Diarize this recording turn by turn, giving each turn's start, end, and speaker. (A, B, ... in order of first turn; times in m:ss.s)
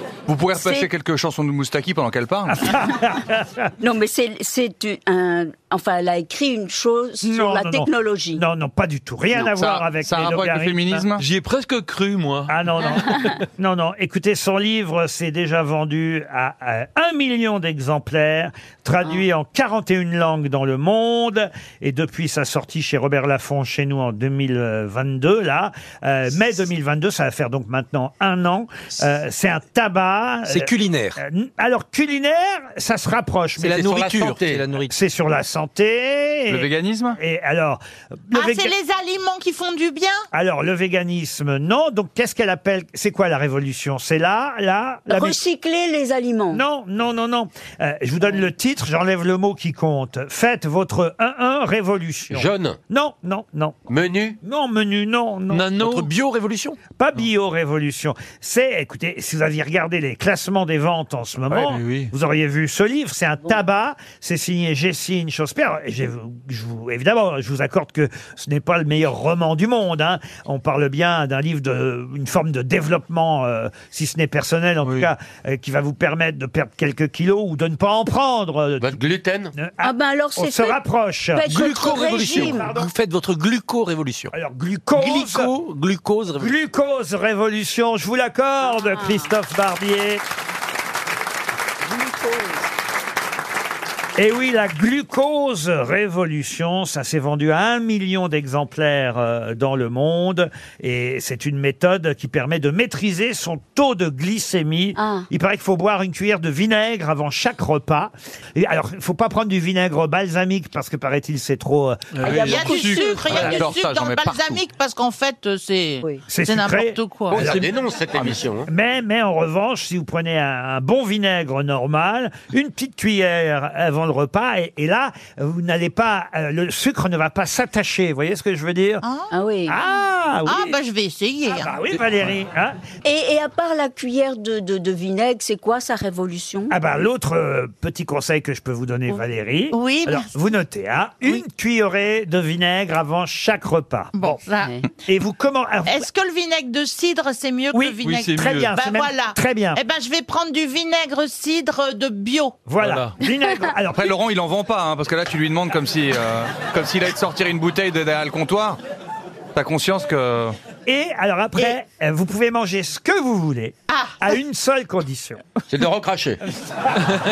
0:00.2-0:02.6 A
0:00.6-0:00.9 B
0:02.5-0:03.7 C
0:03.8-0:08.4 B
0:07.2-0:11.1 C
0:09.4-0:11.2 A
0:11.2-0:12.6 D
0:12.5-0:33.8 C
0:30.5-0:31.2 E
0:33.6-0:34.9 E
0:33.6-0:34.6 F
0:34.8-0:38.7 C
0:36.5-0:37.2 A
0:38.3-0:40.3 G
0:40.3-0:45.4 C
0:45.1-0:46.6 B
0:46.5-0:53.8 C
0:52.3-0:52.8 F
0:53.9-0:54.4 F
0:54.4-0:55.7 C
0:55.5-0:56.1 D
0:55.8-0:56.8 E
0:56.9-1:19.0 C
1:01.5-1:02.1 D
1:18.8-1:19.5 F
1:19.6-1:22.9 C
1:19.8-1:20.8 B
1:21.3-1:22.7 B
1:21.4-1:24.3 E
1:24.3-1:25.5 C
1:24.9-1:26.5 E
1:26.4-1:30.2 C
1:28.6-1:29.3 B
1:31.8-1:32.6 B
1:34.2-1:52.6 C
1:45.0-1:45.3 B
1:52.1-1:53.2 D
1:52.2-1:53.7 B
1:52.4-1:57.5 G
1:53.2-1:54.6 A
1:56.3-1:57.7 C
1:57.3-1:58.7 F
1:57.3-1:57.6 A
1:58.1-1:58.4 A
1:58.7-2:09.0 C
2:09.0-2:09.3 G
2:09.3-2:09.8 B
2:09.7-2:10.8 C
2:10.4-2:11.7 G
2:11.5-2:12.8 C
2:13.0-2:16.8 B
2:16.7-2:24.4 C
2:19.7-2:20.3 G
2:24.1-2:24.7 G
2:25.0-2:26.1 C
2:25.8-2:32.6 G
2:27.7-2:29.8 C
2:28.0-2:28.7 D
2:32.6-2:34.1 C
2:32.8-2:33.2 D
2:34.0-2:38.8 A
2:39.5-2:40.6 A
2:40.8-2:45.4 C
2:43.9-2:44.2 G
2:45.7-2:46.4 F